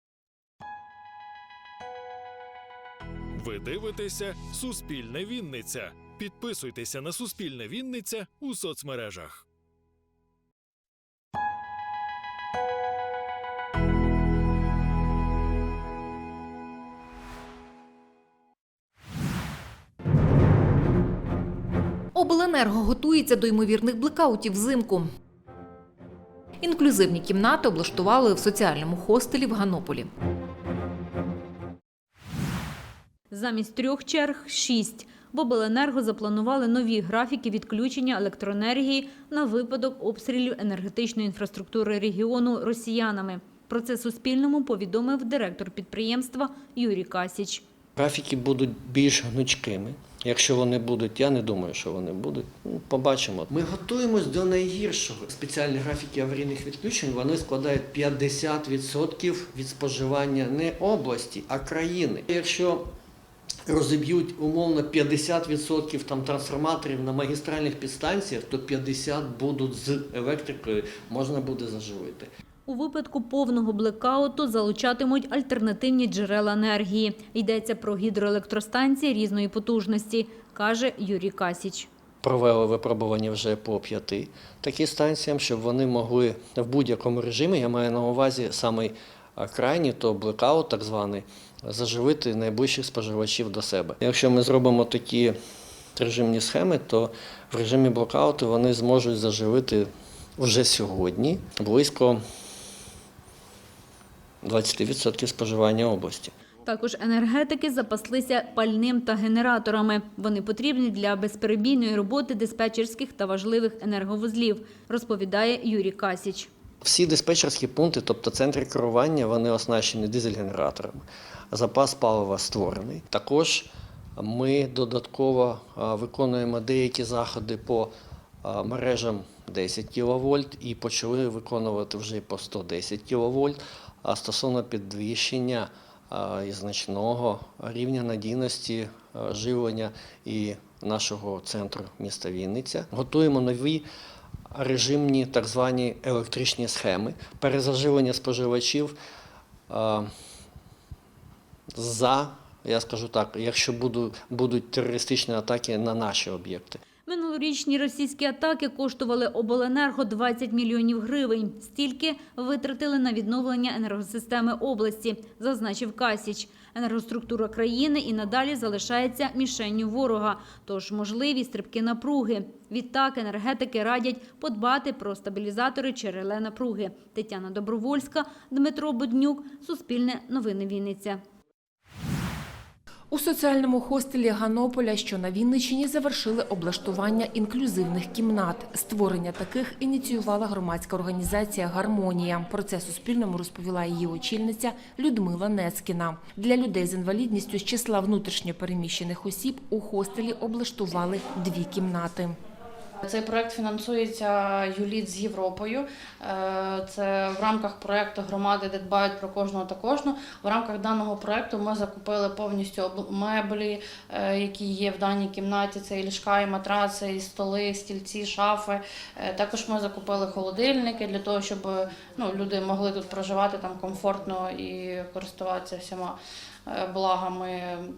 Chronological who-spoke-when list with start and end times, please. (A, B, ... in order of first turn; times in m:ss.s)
0:03.3-0:09.4 A
0:33.3-0:47.6 B
0:48.0-1:02.8 C
1:03.7-1:12.3 C
1:12.7-1:21.9 B
1:22.2-1:35.4 C
1:36.0-1:42.2 C
1:44.4-1:46.3 C
1:46.6-1:56.5 B
1:56.8-2:23.8 C
2:24.5-2:29.0 C
2:29.7-2:30.1 C
2:31.8-2:36.8 C
2:37.0-3:01.2 B
3:03.1-3:22.4 D
3:23.0-3:46.2 E
3:46.7-3:47.9 E